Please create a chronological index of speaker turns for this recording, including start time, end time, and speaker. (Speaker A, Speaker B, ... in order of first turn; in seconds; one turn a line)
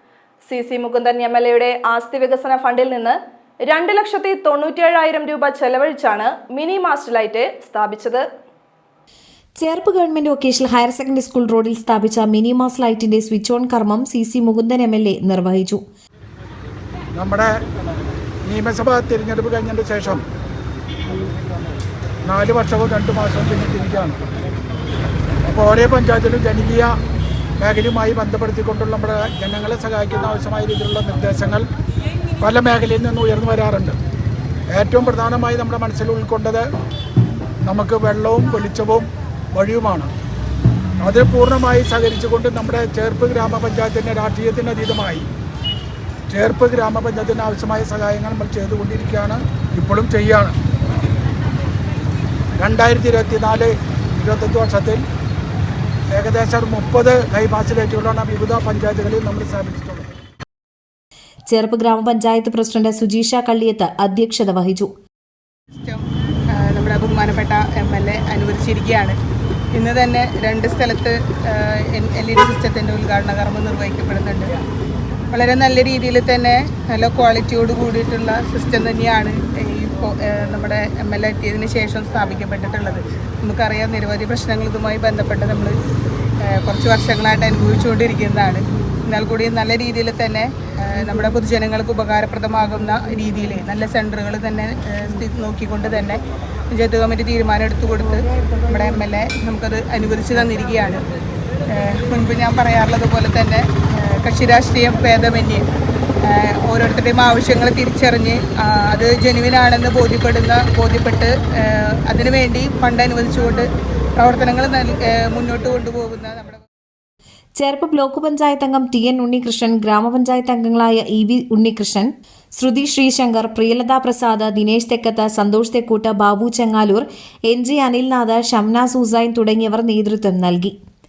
Speaker A: 0.4-8.3
Speaker B: 9.6-15.8
Speaker C: 17.2-17.5
Speaker C: 18.5-20.2
Speaker C: 22.3-24.2
Speaker C: 25.4-26.9
Speaker C: 27.6-31.6
Speaker C: 32.4-34.0
Speaker C: 34.7-36.6
Speaker C: 37.7-40.1
Speaker C: 41.0-45.3
Speaker C: 46.3-50.5
Speaker C: 52.6-55.0
Speaker C: 56.1-60.1
Speaker B: 61.5-64.9
Speaker D: 65.8-66.0
Speaker D: 66.5-69.2
Speaker D: 69.8-74.5
Speaker D: 75.3-85.8
Speaker D: 86.5-101.0
Speaker D: 101.7-105.6
Speaker D: 106.3-116.6
Speaker B: 117.6-130.8